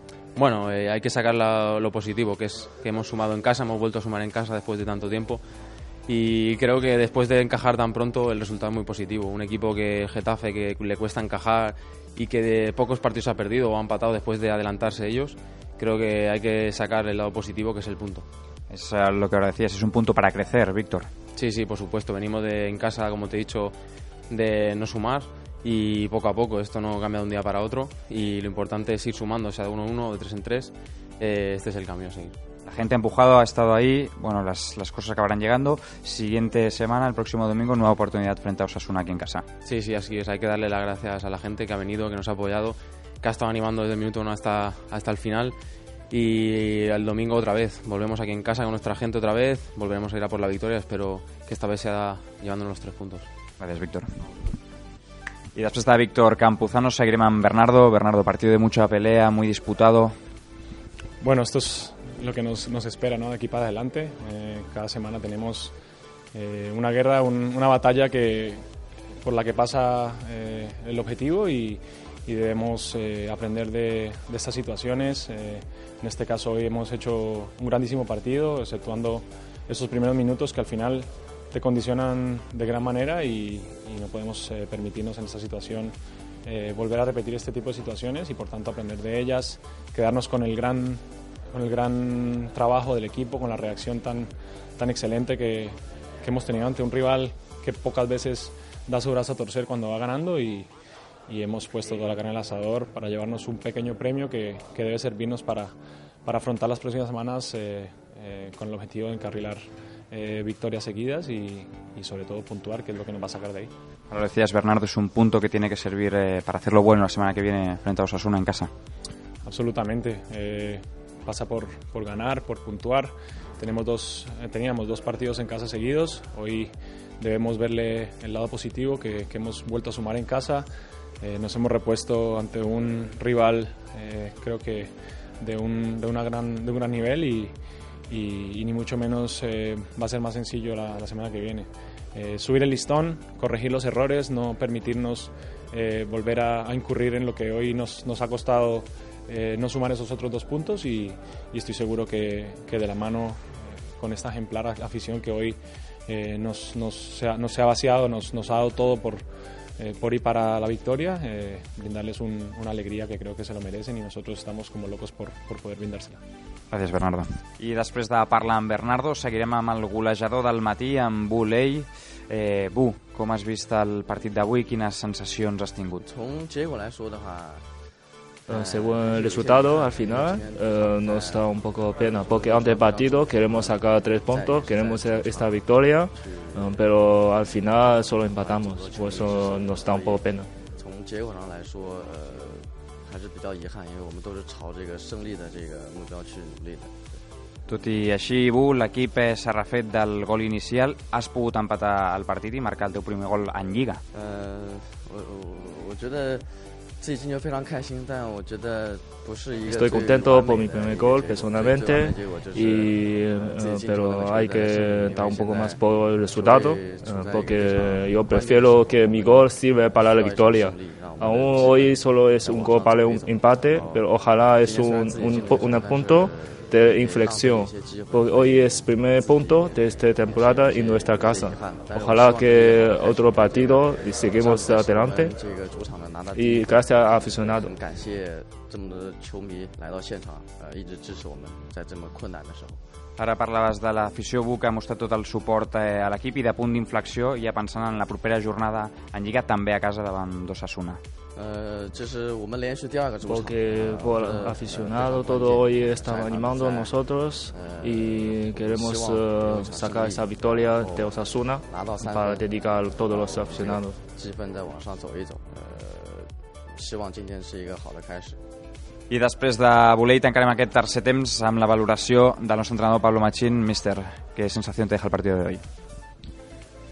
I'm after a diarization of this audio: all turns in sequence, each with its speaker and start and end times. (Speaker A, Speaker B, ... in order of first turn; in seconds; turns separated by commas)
Speaker A: 0.3-5.4, Speaker A: 6.1-18.2, Speaker B: 18.7-21.1, Speaker A: 21.3-23.7, Speaker A: 24.3-32.3, Speaker B: 32.6-39.5, Speaker A: 39.6-45.5, Speaker A: 46.1-53.3, Speaker B: 53.6-54.2, Speaker B: 55.5-60.1, Speaker C: 61.2-65.7, Speaker C: 66.3-68.6, Speaker C: 69.2-85.9, Speaker C: 86.4-91.0, Speaker C: 91.5-100.7, Speaker C: 101.3-105.7, Speaker C: 106.2-113.7, Speaker B: 114.1-118.7, Speaker C: 119.4-130.7, Speaker C: 131.2-137.5, Speaker C: 138.1-153.4, Speaker C: 154.0-159.2, Speaker C: 159.8-166.2, Speaker B: 166.7-176.0, Speaker D: 176.0-177.7, Speaker D: 178.5-186.8, Speaker E: 178.5-190.5, Speaker D: 188.3-197.2, Speaker B: 197.7-204.0, Speaker D: 204.1-242.8, Speaker E: 209.7-235.3, Speaker E: 236.3-237.7, Speaker B: 243.2-251.0, Speaker D: 251.3-268.4, Speaker E: 253.2-264.0, Speaker B: 269.1-275.6